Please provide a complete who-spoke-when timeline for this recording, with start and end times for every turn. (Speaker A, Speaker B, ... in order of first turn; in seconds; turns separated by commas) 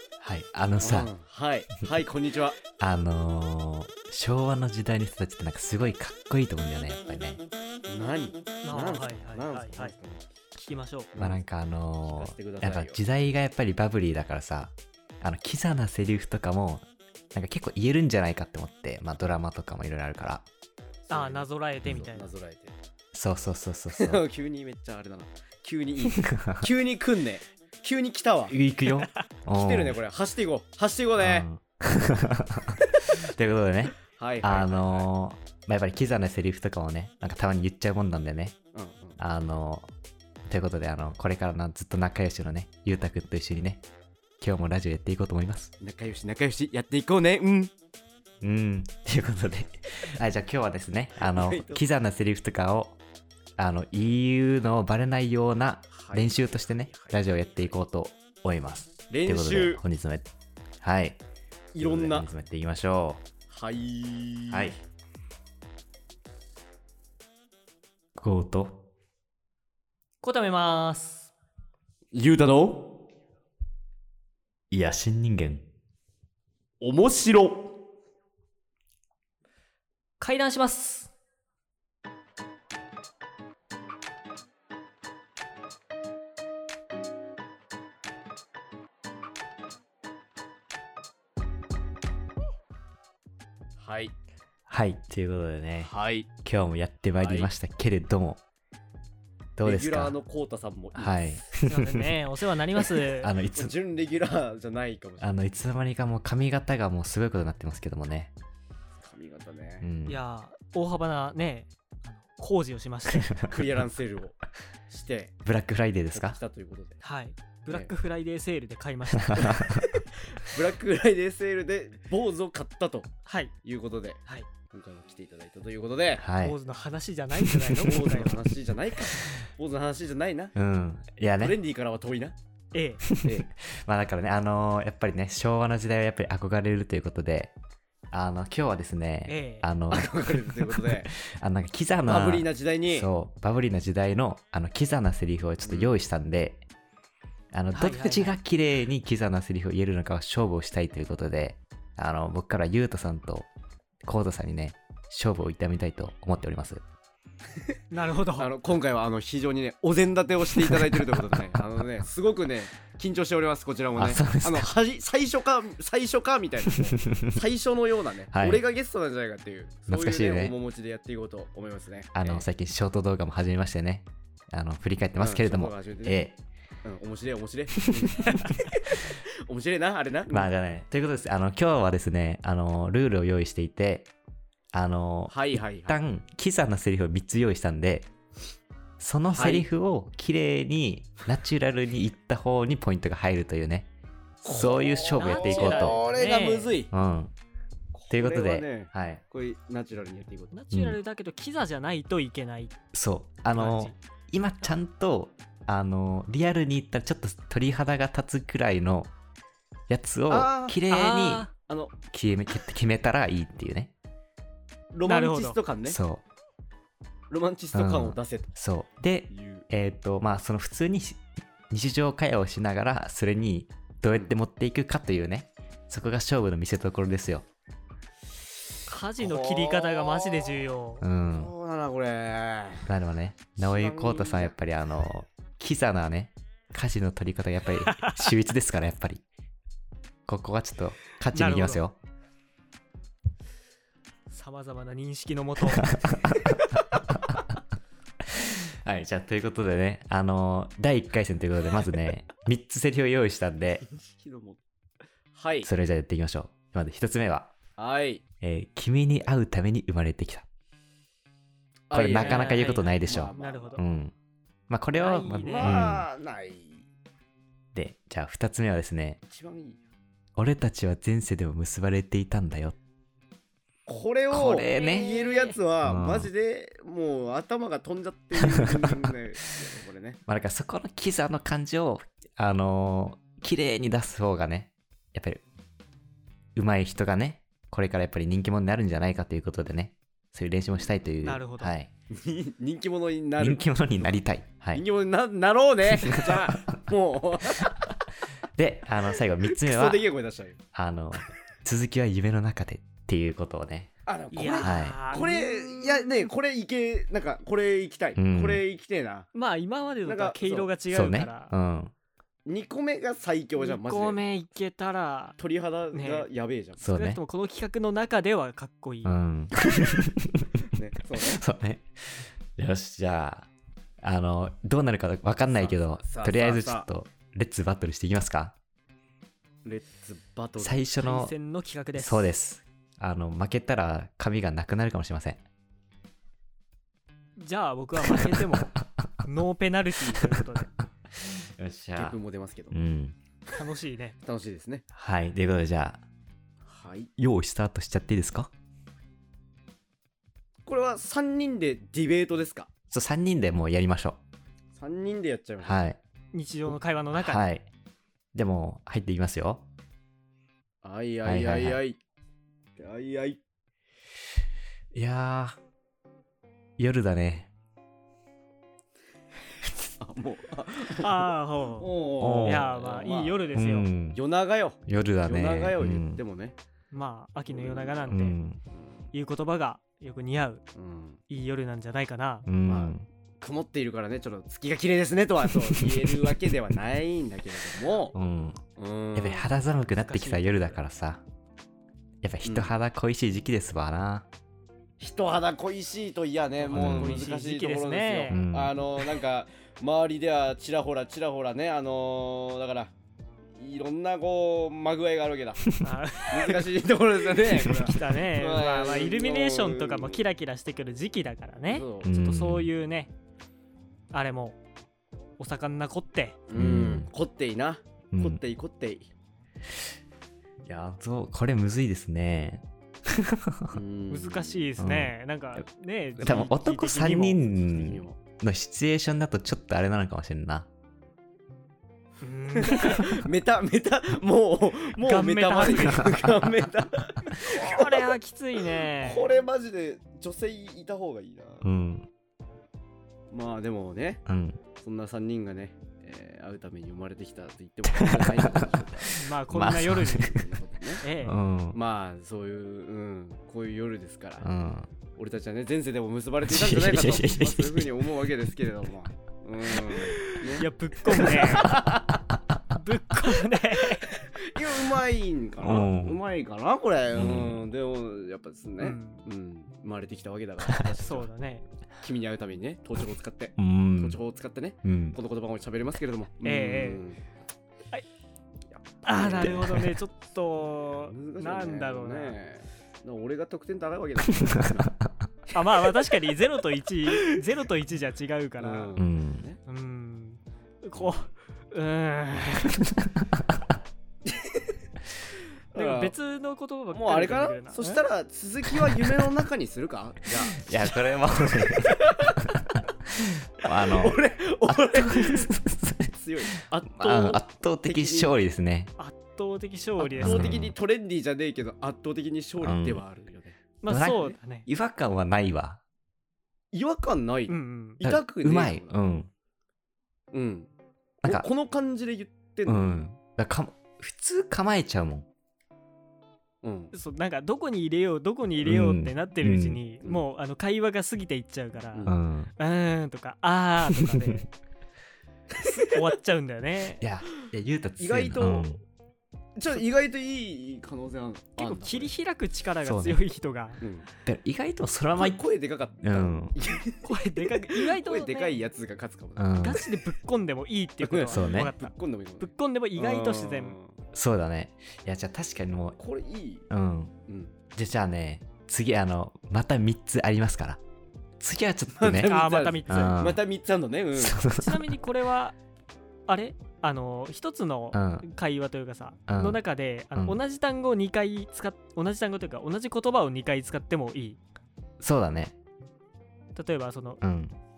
Speaker A: 0.2-1.1, Speaker B: 0.8-2.6, Speaker A: 2.8-7.4, Speaker B: 7.9-10.3, Speaker C: 8.6-9.9, Speaker C: 10.6-11.1, Speaker B: 11.1-11.4, Speaker A: 11.2-20.5, Speaker B: 12.0-13.0, Speaker B: 21.1-22.8, Speaker C: 21.1-22.3, Speaker A: 23.1-24.2, Speaker B: 24.0-28.5, Speaker A: 26.1-26.7, Speaker A: 28.5-30.0, Speaker B: 29.5-31.5, Speaker A: 31.2-38.6, Speaker B: 34.1-35.1, Speaker B: 38.7-39.2, Speaker A: 39.2-39.9, Speaker A: 40.5-43.8, Speaker A: 44.4-45.7, Speaker B: 45.8-47.7, Speaker A: 48.4-53.0, Speaker B: 51.2-51.8, Speaker A: 53.6-60.3, Speaker B: 55.9-57.7, Speaker B: 59.1-59.8, Speaker A: 60.8-61.2, Speaker B: 61.7-62.3, Speaker A: 61.8-63.2, Speaker B: 63.5-64.7, Speaker A: 64.5-64.8, Speaker A: 68.2-68.8, Speaker C: 70.2-71.3, Speaker B: 72.1-73.0, Speaker A: 74.7-75.7, Speaker B: 76.8-77.7, Speaker C: 80.2-81.1, Speaker B: 93.8-94.1, Speaker A: 94.7-98.4, Speaker B: 95.8-96.3, Speaker B: 97.2-97.5, Speaker A: 99.6-100.2, Speaker B: 99.6-101.4, Speaker A: 101.0-102.2, Speaker C: 101.6-103.3, Speaker A: 102.8-103.7, Speaker B: 103.5-105.3, Speaker A: 105.2-108.3, Speaker B: 109.0-109.9, Speaker A: 109.8-110.2, Speaker C: 110.1-113.4, Speaker A: 113.1-113.5, Speaker B: 113.5-114.4, Speaker B: 114.9-115.3, Speaker A: 115.5-116.4, Speaker B: 116.1-117.0, Speaker C: 117.0-119.8, Speaker A: 119.2-119.9, Speaker B: 120.3-123.1, Speaker C: 123.3-123.5, Speaker B: 123.6-126.2, Speaker A: 126.2-126.6, Speaker C: 126.4-128.4, Speaker A: 127.5-127.9, Speaker B: 127.8-130.5, Speaker A: 130.6-131.6, Speaker B: 131.4-132.4, Speaker C: 132.7-133.0, Speaker A: 133.1-137.5, Speaker A: 138.1-146.6, Speaker C: 139.3-139.7, Speaker B: 139.9-141.1, Speaker B: 142.1-143.1, Speaker B: 145.6-146.0, Speaker A: 147.5-153.5, Speaker C: 147.7-148.4, Speaker A: 154.0-156.8, Speaker C: 157.9-158.5, Speaker B: 158.3-172.5, Speaker A: 164.0-164.7, Speaker A: 166.8-167.4, Speaker A: 168.3-168.6, Speaker A: 169.9-170.6, Speaker A: 172.2-176.4, Speaker B: 175.2-176.2, Speaker B: 176.8-178.5, Speaker A: 177.9-179.0, Speaker B: 179.0-180.5, Speaker A: 180.3-184.1, Speaker A: 184.7-188.1, Speaker B: 185.3-186.0, Speaker A: 189.0-193.9, Speaker B: 189.3-189.7, Speaker A: 194.4-196.0, Speaker B: 194.4-196.9, Speaker C: 195.2-196.8, Speaker A: 196.9-197.3, Speaker B: 197.9-200.5, Speaker A: 198.1-199.2, Speaker C: 200.5-202.8, Speaker A: 200.7-201.0, Speaker A: 202.9-209.1, Speaker C: 203.6-203.9, Speaker A: 209.9-211.5, Speaker B: 210.3-210.8, Speaker C: 210.9-211.5, Speaker B: 211.7-211.9, Speaker A: 212.1-213.9, Speaker B: 214.9-216.0, Speaker C: 215.1-215.6, Speaker A: 215.8-216.2, Speaker B: 217.3-218.5, Speaker A: 217.7-227.5, Speaker B: 219.3-219.7, Speaker C: 228.9-231.0, Speaker B: 229.2-230.7, Speaker A: 231.0-231.5, Speaker B: 231.3-232.9, Speaker A: 232.9-239.2, Speaker B: 233.6-234.6, Speaker C: 237.9-238.3, Speaker A: 240.3-242.0, Speaker C: 241.3-241.8, Speaker C: 244.3-246.0, Speaker A: 245.7-247.4, Speaker A: 248.3-253.8, Speaker B: 253.9-254.6, Speaker B: 255.3-255.7, Speaker A: 255.6-257.5, Speaker B: 257.8-258.2, Speaker A: 258.4-260.5, Speaker B: 261.9-263.8, Speaker A: 261.9-264.1, Speaker C: 262.1-263.8, Speaker A: 264.7-266.1, Speaker C: 265.0-265.8, Speaker B: 265.4-266.9, Speaker A: 267.7-269.2, Speaker B: 269.3-269.8, Speaker A: 270.4-272.8, Speaker B: 273.9-280.2, Speaker A: 274.3-275.1, Speaker C: 274.7-275.6, Speaker A: 275.8-276.3, Speaker A: 278.4-279.1, Speaker A: 280.3-285.4, Speaker A: 286.6-291.9, Speaker C: 291.2-291.7, Speaker B: 292.1-294.2, Speaker A: 293.4-294.9, Speaker B: 294.7-297.8, Speaker A: 296.0-296.8, Speaker A: 298.6-300.1, Speaker B: 299.4-300.6, Speaker A: 300.7-303.9, Speaker B: 304.1-309.3, Speaker C: 304.3-306.2, Speaker A: 304.6-305.0, Speaker A: 308.2-308.6, Speaker C: 309.4-311.5, Speaker B: 310.0-310.7, Speaker A: 310.9-311.9, Speaker B: 312.4-314.2, Speaker C: 313.6-315.4, Speaker B: 315.4-316.8, Speaker C: 315.9-316.3, Speaker A: 316.8-317.2, Speaker C: 316.8-319.2, Speaker A: 319.1-320.6, Speaker B: 320.7-321.4, Speaker A: 321.1-323.5, Speaker A: 324.0-328.6, Speaker B: 325.5-326.9, Speaker B: 329.6-330.8, Speaker A: 330.6-331.3, Speaker C: 331.0-332.3, Speaker A: 331.9-335.4, Speaker C: 337.4-340.7, Speaker A: 338.1-339.1, Speaker A: 341.2-342.2, Speaker B: 342.0-342.8, Speaker A: 342.7-343.1, Speaker C: 343.5-344.2, Speaker B: 344.2-344.8, Speaker A: 344.9-346.0, Speaker B: 346.6-347.1, Speaker A: 347.2-348.5, Speaker B: 350.7-352.7, Speaker A: 352.9-354.2, Speaker B: 354.8-355.8, Speaker A: 355.6-356.0, Speaker C: 356.3-357.4, Speaker A: 357.2-357.7, Speaker A: 358.3-359.6, Speaker B: 360.8-362.0, Speaker A: 361.2-361.8, Speaker B: 362.8-363.4, Speaker A: 364.9-365.6, Speaker A: 366.8-367.5, Speaker B: 370.0-373.5, Speaker C: 370.9-373.9, Speaker A: 372.2-372.7, Speaker A: 373.5-374.2, Speaker B: 374.1-376.6, Speaker A: 374.9-376.2, Speaker C: 376.9-378.4, Speaker B: 377.5-378.2, Speaker A: 378.1-378.6, Speaker B: 378.7-379.0, Speaker C: 379.1-380.6, Speaker B: 380.8-381.2, Speaker C: 381.3-382.5, Speaker A: 382.5-383.1, Speaker B: 382.7-388.2, Speaker A: 385.6-386.5, Speaker A: 388.1-388.6, Speaker B: 388.8-389.5, Speaker A: 389.1-391.2, Speaker C: 389.9-390.8, Speaker A: 392.2-394.3, Speaker B: 392.4-392.7, Speaker B: 395.0-402.9, Speaker C: 396.6-398.4, Speaker A: 396.7-397.2, Speaker A: 398.3-398.8, Speaker B: 403.6-410.2, Speaker C: 405.8-406.7, Speaker C: 407.4-413.1, Speaker B: 411.7-412.1, Speaker A: 412.0-412.7, Speaker C: 414.1-414.6, Speaker C: 415.4-416.4, Speaker B: 416.5-419.1, Speaker A: 416.6-417.1, Speaker A: 418.1-418.4, Speaker A: 420.6-423.8, Speaker B: 423.7-424.6, Speaker C: 424.1-427.4, Speaker A: 424.8-425.6, Speaker A: 426.2-430.7, Speaker B: 427.6-428.2, Speaker C: 432.2-433.2, Speaker B: 432.5-438.2, Speaker C: 435.0-436.2, Speaker C: 437.4-439.3, Speaker B: 438.8-441.6, Speaker A: 441.6-442.1, Speaker B: 443.3-444.2, Speaker A: 444.3-444.6, Speaker B: 444.8-449.2, Speaker A: 447.9-450.4, Speaker C: 449.1-450.4, Speaker B: 450.2-451.1, Speaker C: 451.0-451.4, Speaker A: 451.2-451.8, Speaker B: 451.7-454.5, Speaker A: 454.4-454.9, Speaker B: 455.2-462.1, Speaker A: 456.5-458.1, Speaker C: 459.8-461.8, Speaker A: 461.2-462.4, Speaker C: 462.7-464.1, Speaker B: 463.5-471.3, Speaker A: 465.6-466.2, Speaker A: 467.1-467.6, Speaker C: 468.8-469.2, Speaker C: 471.0-471.6, Speaker B: 472.0-477.2, Speaker A: 473.6-474.2, Speaker A: 474.8-475.2, Speaker C: 476.4-477.1, Speaker B: 478.7-479.9, Speaker C: 479.0-482.4, Speaker A: 479.4-479.9, Speaker B: 481.0-484.9, Speaker A: 484.4-485.1, Speaker C: 485.5-488.9, Speaker B: 487.1-487.4, Speaker B: 488.6-489.6, Speaker A: 489.0-489.4, Speaker C: 489.7-492.8, Speaker B: 490.9-491.3, Speaker A: 492.8-493.4, Speaker B: 494.2-494.8, Speaker B: 495.7-496.2, Speaker C: 495.7-498.0, Speaker B: 496.9-501.0, Speaker A: 500.5-508.9, Speaker B: 501.7-502.4, Speaker B: 503.6-505.5, Speaker B: 506.1-508.3, Speaker C: 509.0-510.6, Speaker A: 510.0-510.7, Speaker B: 510.2-513.6, Speaker A: 512.6-513.0, Speaker C: 513.8-514.7, Speaker A: 513.9-515.8, Speaker B: 516.7-519.0, Speaker C: 517.5-518.0, Speaker A: 518.0-519.3, Speaker B: 520.3-520.7, Speaker A: 521.2-521.5, Speaker B: 521.2-523.0, Speaker A: 522.7-525.3, Speaker B: 526.6-526.9, Speaker C: 526.9-534.5, Speaker A: 528.6-529.8, Speaker A: 532.1-532.5, Speaker A: 533.9-534.2, Speaker B: 535.5-536.1, Speaker C: 535.8-537.0, Speaker A: 537.0-538.8, Speaker B: 538.0-538.7, Speaker B: 539.6-542.1, Speaker C: 541.6-543.8, Speaker A: 542.8-543.2, Speaker B: 543.8-544.1, Speaker A: 544.2-545.4, Speaker B: 545.2-550.0, Speaker A: 546.0-546.6, Speaker C: 547.0-548.6, Speaker A: 549.4-549.8, Speaker C: 549.6-553.8, Speaker B: 551.0-554.0, Speaker A: 551.3-551.7, Speaker A: 554.1-556.0, Speaker B: 556.0-556.7, Speaker A: 556.7-557.1, Speaker B: 557.3-557.6, Speaker A: 557.8-560.8, Speaker A: 561.4-562.4, Speaker B: 562.0-564.4, Speaker C: 562.2-563.2, Speaker A: 562.9-563.4, Speaker A: 564.2-564.9, Speaker C: 564.5-565.5, Speaker C: 566.3-574.4, Speaker A: 567.9-568.3, Speaker A: 569.3-569.6, Speaker A: 570.1-570.4, Speaker A: 575.0-575.6, Speaker C: 576.5-577.2, Speaker A: 577.2-577.5